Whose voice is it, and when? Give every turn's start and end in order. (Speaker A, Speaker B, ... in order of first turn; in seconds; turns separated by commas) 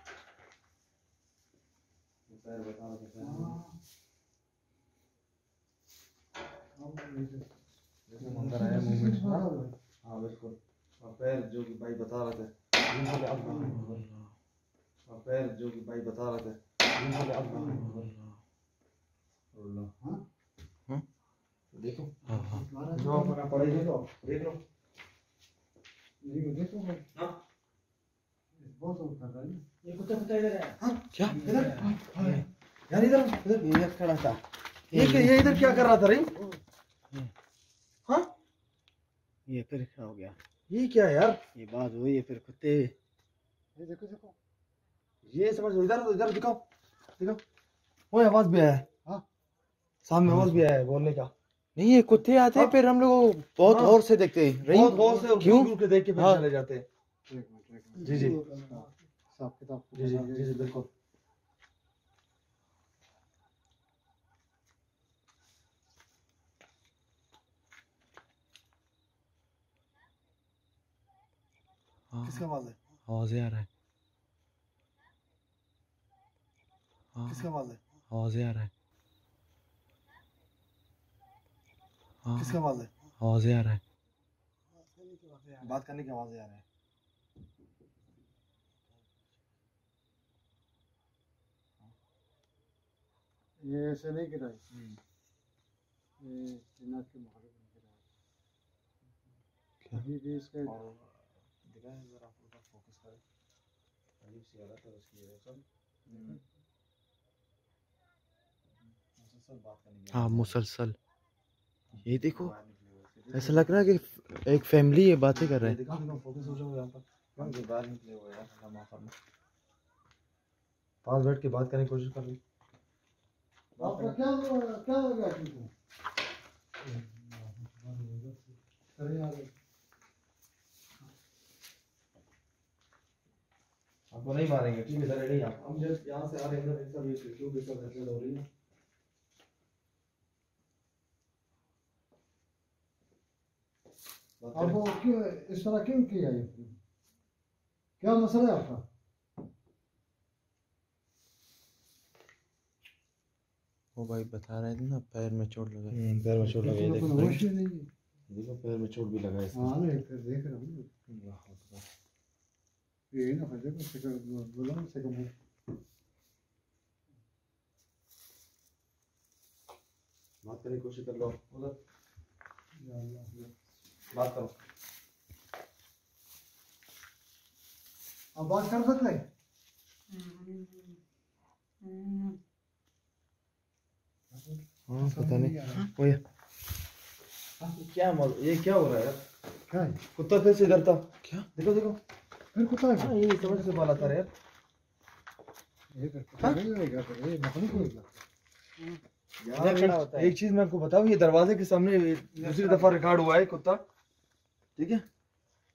Speaker A: 2.3-3.6, Speaker B: 3.2-3.8, Speaker B: 6.8-7.5, Speaker A: 8.1-9.5, Speaker B: 8.2-9.7, Speaker A: 10.0-14.0, Speaker B: 13.0-13.8, Speaker C: 13.6-14.3, Speaker A: 15.1-18.1, Speaker B: 17.0-17.9, Speaker C: 17.6-18.4, Speaker A: 19.6-19.9, Speaker B: 19.9-20.2, Speaker A: 21.7-22.2, Speaker C: 22.3-22.6, Speaker B: 22.3-23.4, Speaker A: 22.9-24.6, Speaker B: 26.2-27.1, Speaker B: 28.6-29.6, Speaker D: 29.8-31.8, Speaker C: 30.6-32.3, Speaker A: 30.8-33.7, Speaker B: 31.5-32.4, Speaker D: 33.6-35.5, Speaker A: 34.9-36.3, Speaker D: 39.5-40.4, Speaker A: 40.7-41.4, Speaker D: 41.5-42.9, Speaker B: 43.8-44.4, Speaker A: 45.2-46.6, Speaker A: 48.1-48.9, Speaker A: 50.0-51.3, Speaker C: 50.3-50.5, Speaker C: 51.8-56.4, Speaker A: 53.6-54.0, Speaker A: 54.7-56.9, Speaker B: 54.8-55.4, Speaker B: 57.3-60.7, Speaker A: 58.0-58.4, Speaker A: 59.9-60.9, Speaker C: 72.1-72.5, Speaker A: 72.4-72.8, Speaker C: 73.1-73.7, Speaker C: 77.2-77.5, Speaker A: 77.3-77.8, Speaker C: 78.1-78.7, Speaker C: 82.2-82.6, Speaker A: 82.4-82.9, Speaker C: 83.2-83.8, Speaker A: 85.6-86.6, Speaker B: 93.6-94.6, Speaker A: 94.7-95.0, Speaker B: 96.2-98.0, Speaker B: 99.9-100.8, Speaker A: 100.6-103.2, Speaker A: 104.2-106.4, Speaker B: 106.1-106.4, Speaker A: 108.8-110.6, Speaker C: 110.1-111.0, Speaker A: 111.9-114.0, Speaker C: 112.0-112.5, Speaker C: 113.3-115.8, Speaker A: 115.3-119.1, Speaker B: 115.9-116.6, Speaker A: 121.0-122.4, Speaker A: 123.8-124.2, Speaker B: 123.8-125.7, Speaker B: 126.8-129.5, Speaker A: 134.1-138.5, Speaker A: 144.4-144.8, Speaker B: 144.5-146.8, Speaker B: 148.0-148.8, Speaker C: 154.0-156.0, Speaker A: 155.9-157.4, Speaker B: 156.4-157.9, Speaker A: 158.3-159.7, Speaker B: 159.5-160.9, Speaker A: 161.1-161.8, Speaker B: 163.1-165.3, Speaker A: 170.4-171.8, Speaker B: 172.8-173.3, Speaker A: 174.1-174.5, Speaker B: 178.3-179.3, Speaker C: 181.9-182.3, Speaker B: 184.3-185.9, Speaker A: 184.9-186.2, Speaker A: 187.6-189.2, Speaker B: 189.7-190.0, Speaker A: 190.2-192.0, Speaker B: 192.5-194.2, Speaker A: 192.9-194.3, Speaker B: 195.9-198.2, Speaker A: 199.4-203.8, Speaker B: 199.6-200.3, Speaker B: 202.3-203.0, Speaker A: 204.8-205.0